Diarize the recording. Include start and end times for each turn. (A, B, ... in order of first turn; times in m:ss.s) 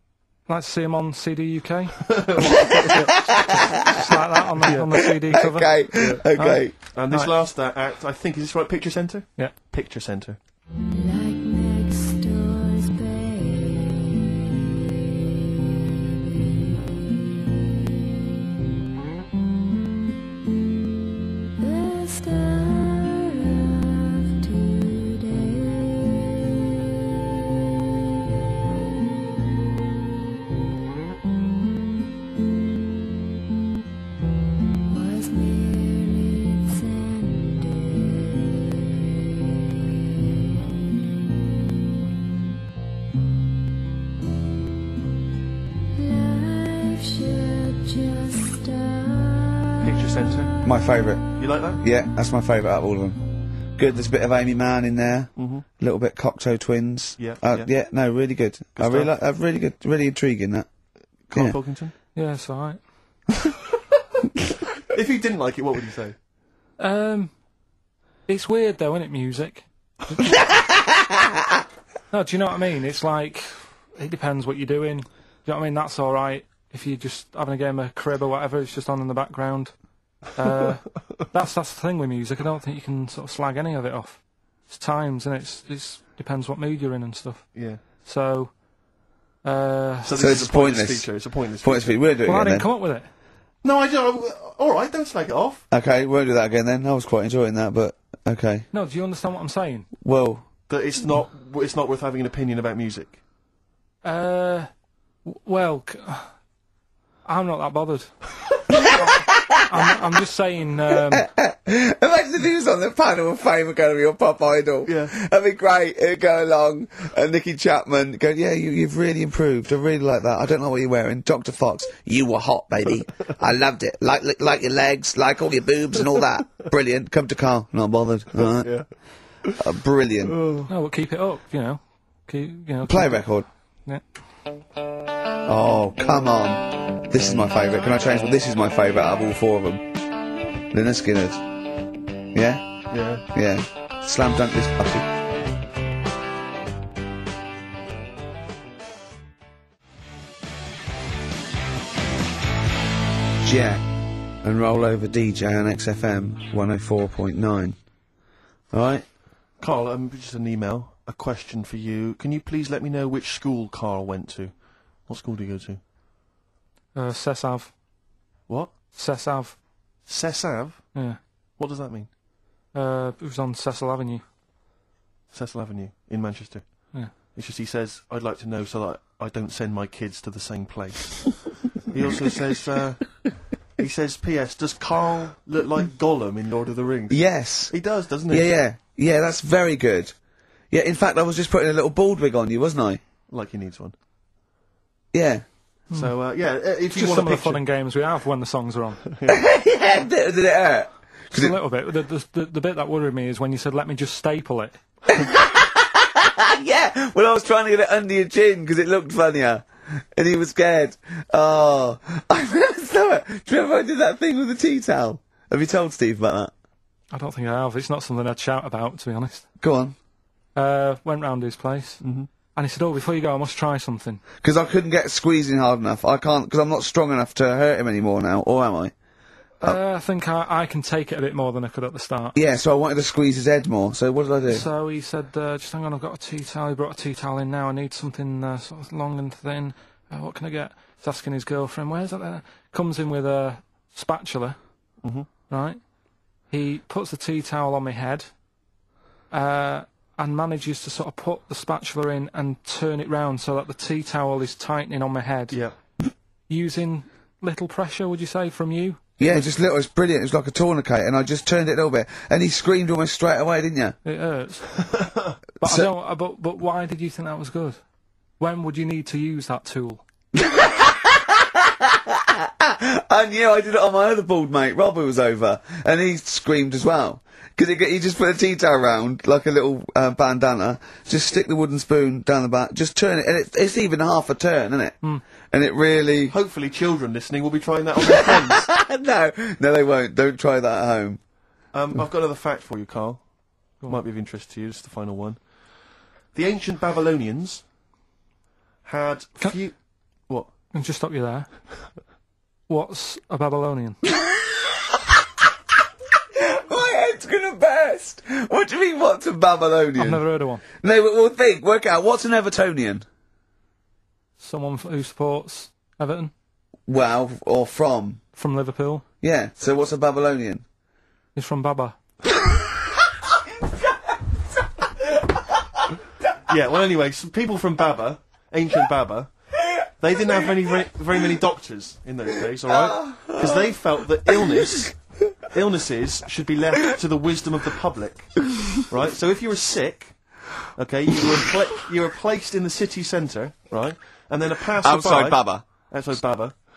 0:00.5-0:02.0 A
0:02.0-0:03.2 B
0:03.3-0:04.2 C
0:03.9-0:07.3 A
0:04.7-0:04.9 B
0:04.9-0:06.7 C
0:05.9-0:06.2 B
0:06.8-0:10.4 B
0:10.8-0:14.2 D
0:21.6-0:26.3 D
0:34.8-0:38.6 D
0:46.0-0:49.6 D
0:49.8-0:50.6 B
0:50.6-0:53.2 C
0:51.4-0:51.8 B
0:53.8-1:00.7 C
0:55.4-0:55.6 B
0:57.2-0:57.7 B
0:58.8-0:59.1 B
1:01.3-1:01.9 B
1:02.1-1:02.8 A
1:04.9-1:06.1 B
1:06.8-1:07.3 A
1:08.3-1:10.2 A
1:10.5-1:11.0 C
1:12.1-1:19.7 A
1:20.3-1:27.5 A
1:27.5-1:27.8 B
1:28.0-1:28.5 A
1:29.4-1:30.1 A
1:30.0-1:32.0 B
1:30.1-1:31.1 C
1:31.6-1:32.7 C
1:32.2-1:33.1 A
1:33.6-1:35.6 B
1:35.7-1:38.6 C
1:38.7-1:39.9 A
1:40.0-1:40.4 C
1:40.7-1:43.2 B
1:44.0-1:44.7 A
1:45.2-1:46.3 A
1:47.2-1:48.1 A
1:48.9-1:49.9 C
1:49.7-1:51.3 A
1:50.9-2:08.7 C
1:54.8-1:55.1 B
2:08.4-2:08.9 B
2:09.6-2:10.4 C
2:10.2-2:10.7 B
2:10.7-2:13.2 A
2:12.9-2:13.4 C
2:15.4-2:20.0 C
2:20.7-2:21.4 C
2:22.3-2:22.6 C
2:22.9-2:23.2 B
2:23.3-2:25.1 C
2:33.4-2:33.8 C
2:34.4-2:37.8 C
2:38.7-2:39.0 C
2:39.6-2:44.5 B
2:45.0-2:45.8 B
2:46.9-2:47.7 A
2:48.9-2:49.6 A
2:50.1-2:50.8 B
2:51.6-2:52.1 B
2:52.7-2:54.2 A
2:55.3-2:56.6 B
2:57.3-3:08.5 B
3:07.1-3:07.7 C
3:08.3-3:10.1 C
3:10.7-3:13.0 C
3:13.3-3:13.9 B
3:15.1-3:15.4 C
3:15.9-3:17.6 B
3:16.9-3:19.0 A
3:19.1-3:19.4 B
3:19.3-3:21.5 C
3:21.3-3:24.8 A
3:25.1-3:36.5 C
3:37.1-3:39.4 A
3:39.6-3:39.9 C
3:40.5-3:42.0 A
3:42.0-3:42.3 B
3:42.5-3:44.2 A
3:44.4-3:48.9 C
3:49.6-3:52.4 A
3:52.3-3:54.7 C
3:54.5-4:04.6 A
4:05.5-4:05.8 A
4:06.5-4:08.3 A
4:09.3-4:15.6 A
4:16.5-4:19.0 A
4:19.2-4:24.0 C
4:24.0-4:24.8 A
4:24.8-4:25.4 B
4:25.6-4:27.8 A
4:25.6-4:25.9 C
4:28.4-4:30.0 A
4:30.3-4:45.0 C
4:45.5-4:46.3 C
4:46.3-4:48.7 B
4:48.0-4:51.2 C
4:51.7-4:53.2 B
4:53.8-4:55.4 B
4:56.3-4:57.6 B
4:58.8-4:59.7 B
5:00.7-5:01.5 A
5:02.7-5:04.0 A
5:04.1-5:05.2 C
5:06.3-5:10.2 C
5:10.0-5:10.6 A
5:10.8-5:13.0 C
5:14.4-5:16.3 A
5:16.9-5:18.2 C
5:18.4-5:19.0 A
5:19.2-5:20.6 C
5:21.3-5:22.0 A
5:26.5-5:29.3 B
5:30.0-5:34.9 B
5:32.7-5:33.7 C
5:35.5-5:40.1 B
5:40.8-5:46.6 B
5:44.8-5:45.6 C